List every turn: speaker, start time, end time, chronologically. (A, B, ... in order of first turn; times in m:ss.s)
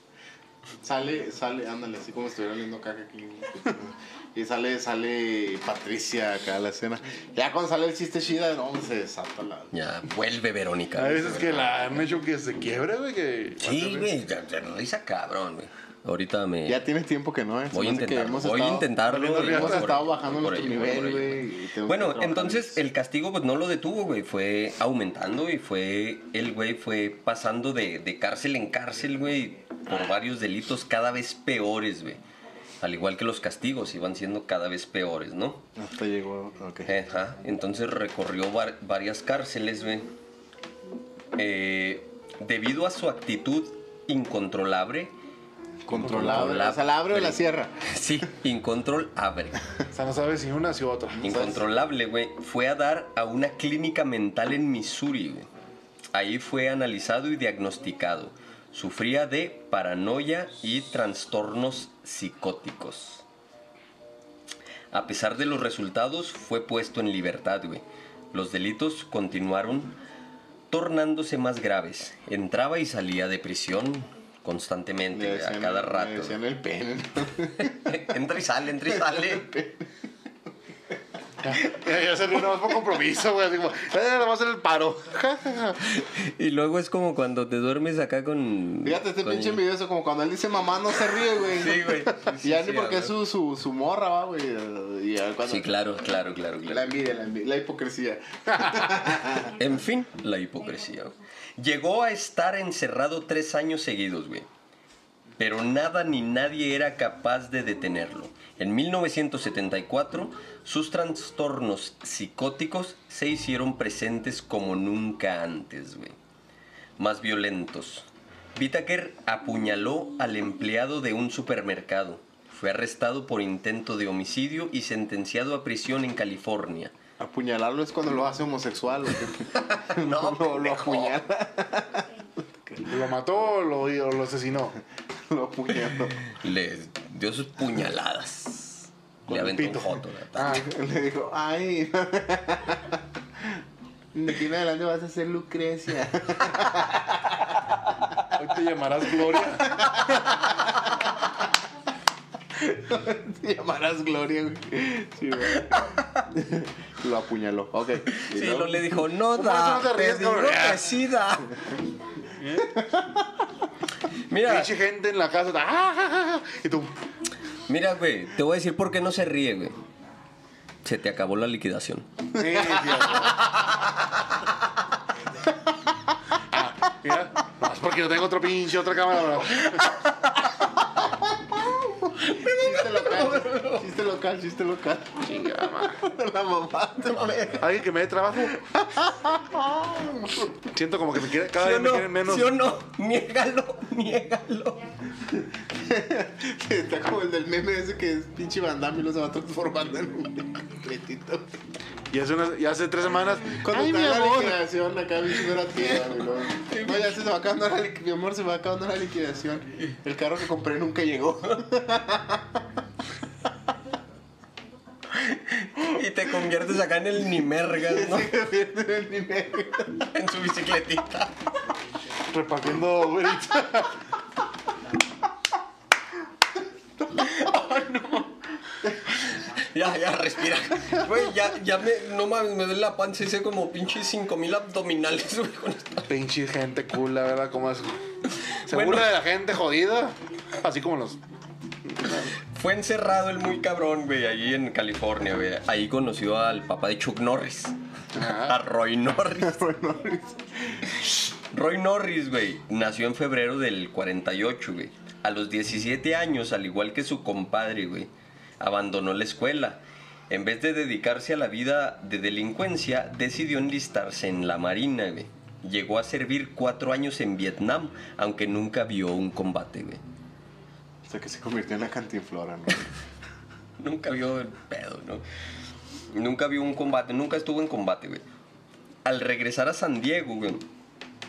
0:00.8-0:09.8 A
0:09.7-0:12.1 B
0:11.0-0:14.1 C
0:13.6-0:16.8 B
0:16.7-0:18.9 A
0:17.7-0:32.2 B
0:19.1-0:20.0 C
0:19.4-0:22.8 A
0:32.8-0:35.7 B
0:35.8-0:37.0 A
0:36.9-0:40.1 B
0:41.4-0:45.2 B
0:45.9-0:47.9 A
0:45.9-0:49.6 B
0:46.1-0:46.4 C
0:49.9-0:51.2 C
0:51.1-0:51.6 A
0:51.2-0:55.5 B
0:56.1-1:03.2 B
1:04.9-1:10.0 B
1:10.7-1:16.4 B
1:15.1-1:18.0 A
1:17.6-1:19.5 B
1:19.1-1:19.9 A
1:21.4-1:26.0 C
1:25.9-1:29.6 B
1:28.8-1:31.9 A
1:31.5-1:33.1 B
1:32.4-1:35.7 A
1:35.4-1:36.9 B
1:36.7-1:39.6 A
1:39.5-1:44.5 B
1:45.4-1:56.2 B
1:57.0-2:07.0 B
2:07.2-2:13.0 A
2:09.5-2:11.2 B
2:12.9-2:14.8 C
2:15.3-2:16.3 A
2:16.2-2:20.6 B
2:19.3-2:20.6 C
2:20.4-2:23.6 A
2:24.1-2:28.2 A
2:28.3-2:30.4 C
2:29.7-2:31.1 A
2:32.6-2:35.8 A
2:35.5-2:36.2 B
2:36.3-2:38.9 A
2:38.1-2:41.5 B
2:39.3-2:41.0 C
2:42.4-2:42.8 C
2:42.7-2:43.3 A
2:44.3-2:44.7 B
2:44.4-2:46.9 C
2:47.7-2:49.8 B
2:50.8-2:52.1 B
2:52.4-2:53.5 C
2:52.5-2:53.4 A
2:56.5-3:00.2 C
3:01.5-3:07.7 A
3:02.2-3:03.9 B
3:05.2-3:06.0 C
3:07.6-3:08.7 C
3:08.6-3:10.5 A
3:10.6-3:12.5 C
3:11.5-3:14.8 B
3:15.3-3:21.5 A
3:22.1-3:24.6 C
3:23.5-3:32.6 A
3:26.8-3:27.1 B
3:35.1-3:38.3 B
3:37.8-3:40.1 A
3:40.1-3:41.5 B
3:42.3-3:44.0 C
3:47.5-3:48.2 C
3:49.4-3:56.1 B
3:56.1-4:01.2 C
3:58.2-3:59.1 B
4:01.9-4:02.4 C
4:02.1-4:09.7 B
4:08.1-4:08.6 C
4:09.4-4:11.0 A
4:11.5-4:30.0 B
4:31.1-4:33.0 A
4:33.8-4:35.2 B
4:36.1-4:38.2 B
4:39.0-4:40.7 B